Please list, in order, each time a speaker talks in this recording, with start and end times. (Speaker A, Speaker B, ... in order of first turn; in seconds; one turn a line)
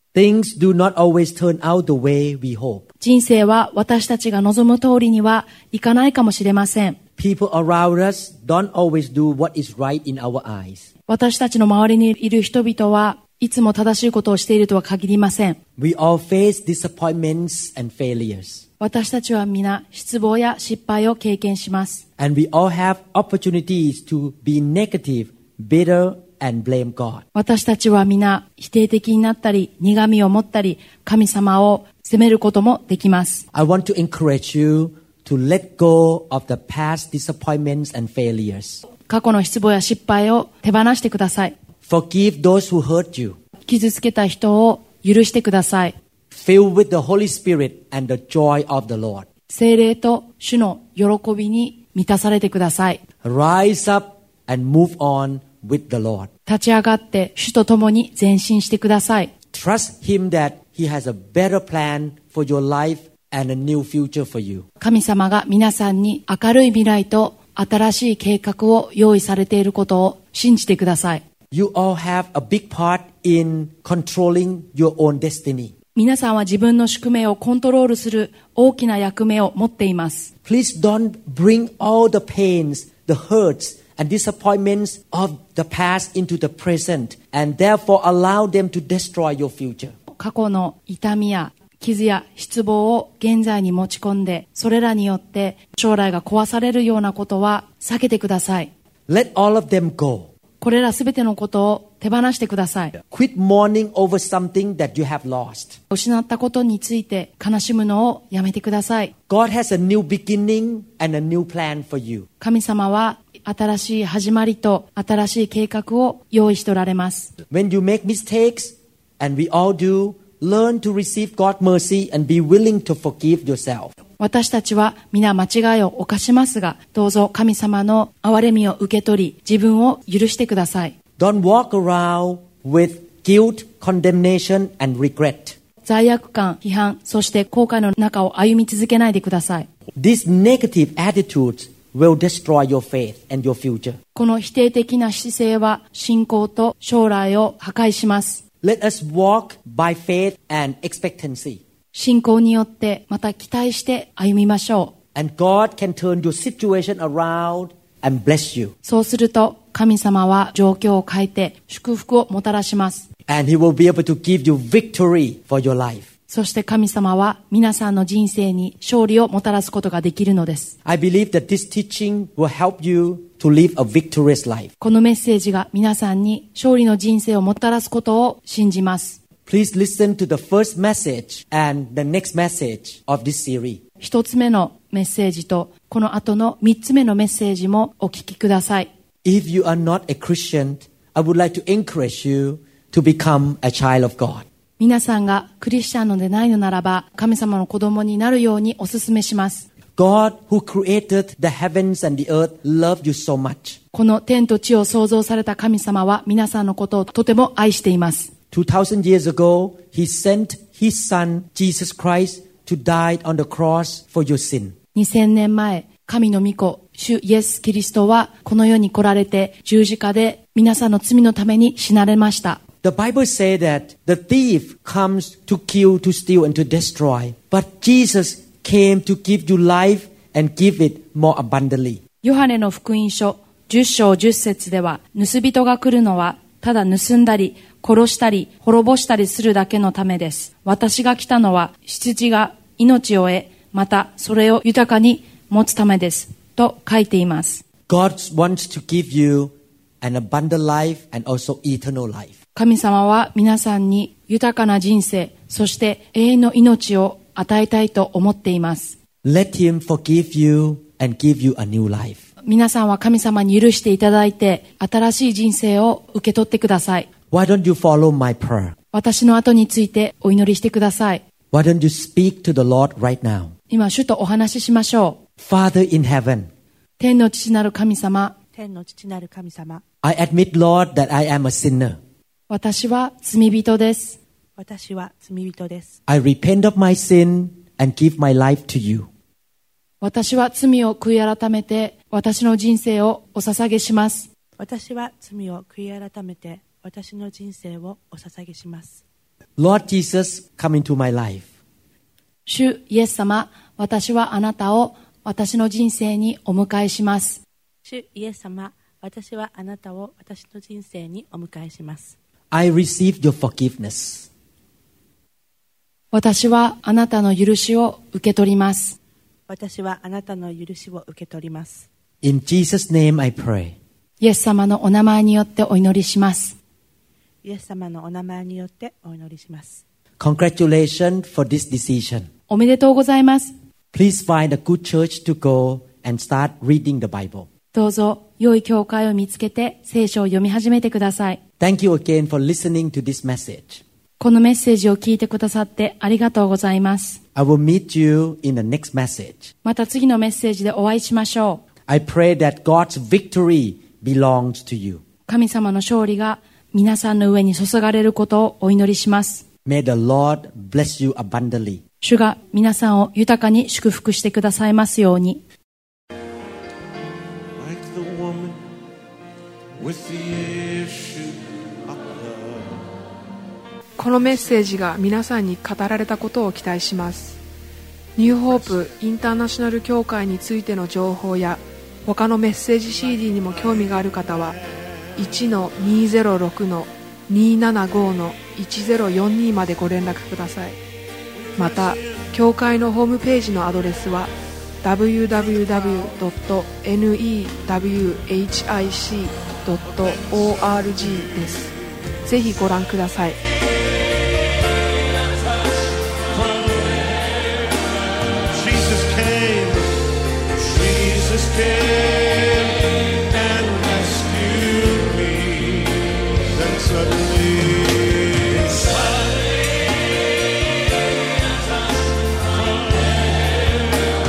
Speaker A: 0.1-2.9
Speaker B: 3.0-7.0
Speaker A: 7.2-10.9
Speaker B: 11.1-15.6
Speaker A: 15.8-18.6
Speaker B: 18.8-22.0
Speaker A: 22.2-27.2
Speaker B: 27.3-33.4
Speaker A: 33.5-38.8
Speaker B: 39.1-41.5
Speaker A: 41.9-43.4
Speaker B: 43.7-45.9
Speaker A: 46.3-49.2
Speaker B: 49.5-53.0
Speaker A: 53.2-56.3
Speaker B: 56.5-59.3
Speaker A: 59.5-64.7
Speaker B: 64.8-71.2
Speaker A: 71.5-75.7
Speaker B: 76.0-80.3
Speaker A: 80.4-89.9
Speaker B: 90.1-98.7
Speaker A: 99.1-100.3
Speaker B: 100.6-102.9
Speaker A: 103.0-105.8
Speaker B: 105.9-109.1
Speaker A: 109.3-112.3
Speaker B: 112.4-117.3
Speaker A: 117.5-123.9
Speaker B: 124.2-130.9
Speaker A: 131.2-135.6
Speaker B: 135.8-139.7
Speaker A: 139.9-144.0
Speaker B: 144.1-148.4
Speaker A: 148.6-151.6
Speaker B: 151.9-154.9
Speaker A: 155.1-158.7
Speaker B: 158.8-163.0
Speaker A: 163.3-166.1
Speaker B: 166.3-170.7
Speaker A: 170.8-174.7
Speaker B: 174.8-179.2
Speaker A: 179.4-183.8
Speaker B: 184.0-188.9
Speaker A: 189.2-194.4
Speaker B: 194.8-199.7
Speaker A: 199.9-203.8
Speaker B: 203.9-208.3
Speaker A: 208.5-214.7
Speaker B: 214.9-222.6
Speaker A: 222.8-232.0
Speaker B: 232.2-247.6
Speaker A: 247.9-252.4
Speaker B: 252.5-258.9
Speaker A: 259.2-262.2
Speaker B: 262.4-267.1
Speaker A: 267.3-268.7
Speaker B: 268.9-271.2
Speaker A: 271.5-273.5
Speaker B: 273.7-275.2
Speaker A: 275.4-276.5
Speaker B: 277.0-278.3
Speaker C: 278.5-279.8
Speaker A: 280.0-282.0
Speaker B: 282.5-284.2
Speaker C: 284.6-286.0
Speaker A: 286.1-289.1
Speaker B: 290.0-294.3
Speaker C: 294.6-299.0
Speaker A: 299.6-301.4
Speaker B: 302.4-307.4
Speaker C: 307.8-312.1
Speaker A: 312.5-314.3
Speaker B: 316.1-319.0
Speaker C: 319.5-321.9
Speaker A: 322.2-323.8
Speaker B: 324.2-326.6
Speaker C: 327.4-329.8
Speaker A: 330.2-332.3
Speaker B: 332.5-333.5
Speaker A: 333.9-337.5
Speaker B: 337.7-341.4
Speaker A: 341.6-343.8
Speaker B: 344.2-347.2
Speaker A: 347.3-349.5
Speaker B: 349.6-351.6
Speaker A: 351.9-355.0
Speaker B: 355.3-359.4
Speaker A: 359.6-361.8
Speaker B: 362.0-365.4
Speaker D: 367.6-368.6
Speaker D: 369.8-372.8
Speaker E: 374.0-377.4
Speaker E: 378.1-384.6
Speaker E: 385.1-390.8
Speaker E: 391.6-403.4
Speaker D: 406.3-407.4
Speaker D: 408.5-416.0
Speaker D: 416.5-419.7
Speaker D: 422.3-423.5